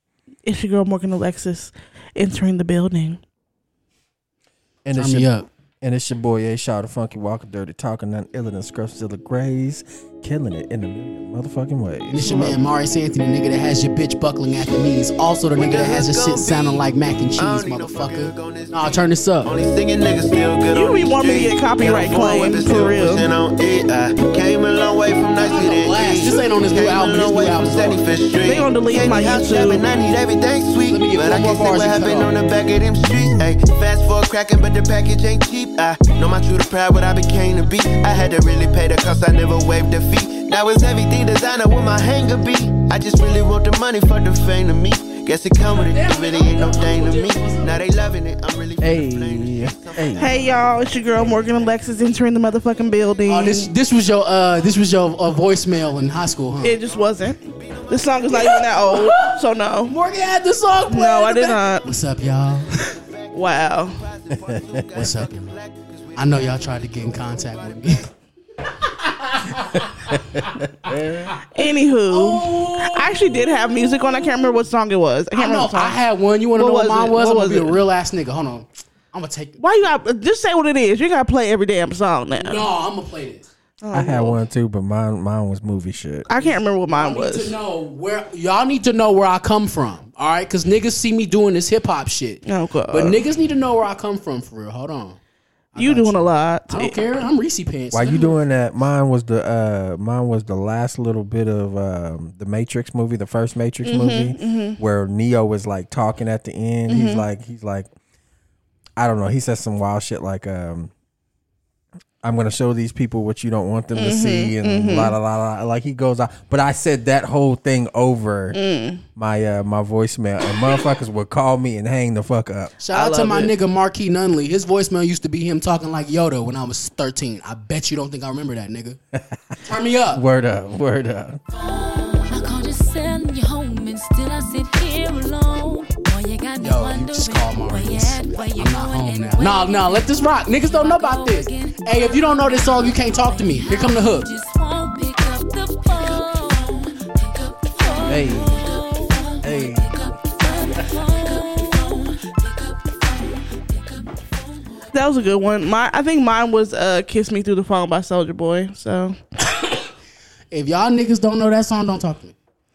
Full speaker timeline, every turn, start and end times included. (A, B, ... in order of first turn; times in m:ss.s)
0:00.4-0:03.2 A
0:04.8-0:05.3 B
0:05.0-0:05.5 C
0:05.8-0:12.6 B
0:12.1-0:19.5 C
0:15.6-0:51.8 D
0:20.7-0:23.3 A
0:25.4-0:28.0 C
0:28.4-0:29.8 A
0:30.9-0:32.3 C
0:45.6-0:47.8 C
0:48.8-0:50.4 B
0:50.2-0:53.7 A
0:53.3-0:56.8 C
0:56.6-0:59.9 A
0:56.8-0:58.6 D
0:58.4-0:59.3 C
0:59.9-1:02.8 C
1:00.9-1:01.9 A
1:02.8-1:08.1 D
1:03.3-1:04.0 A
1:04.4-1:04.8 B
1:05.0-1:05.6 C
1:06.2-1:08.1 C
1:08.7-1:14.6 C
1:10.1-1:11.3 B
1:11.5-1:16.0 A
1:15.3-1:19.6 C
1:16.6-1:17.8 A
1:19.6-1:22.7 A
1:22.4-1:23.5 C
1:23.8-1:24.4 A
1:23.9-1:26.3 B
1:26.3-1:27.6 A
1:26.4-1:35.2 C
1:32.5-1:33.2 A
1:35.7-1:38.4 C
1:35.8-1:37.1 A
1:37.9-1:47.9 B
1:43.8-1:44.8 A
1:46.9-1:47.2 A
1:49.0-1:50.9 B
1:52.2-1:58.6 B
1:54.0-1:55.1 A
1:58.5-1:59.0 A
1:59.2-2:02.8 B
2:02.8-2:09.0 C
2:02.9-2:03.5 A
2:09.6-2:10.2 C
2:10.1-2:11.4 B
2:11.5-2:34.9 E
2:16.6-2:24.3 C
2:28.0-2:28.6 B
2:29.4-2:30.0 B
2:34.9-2:39.2 A
2:40.5-2:42.4 C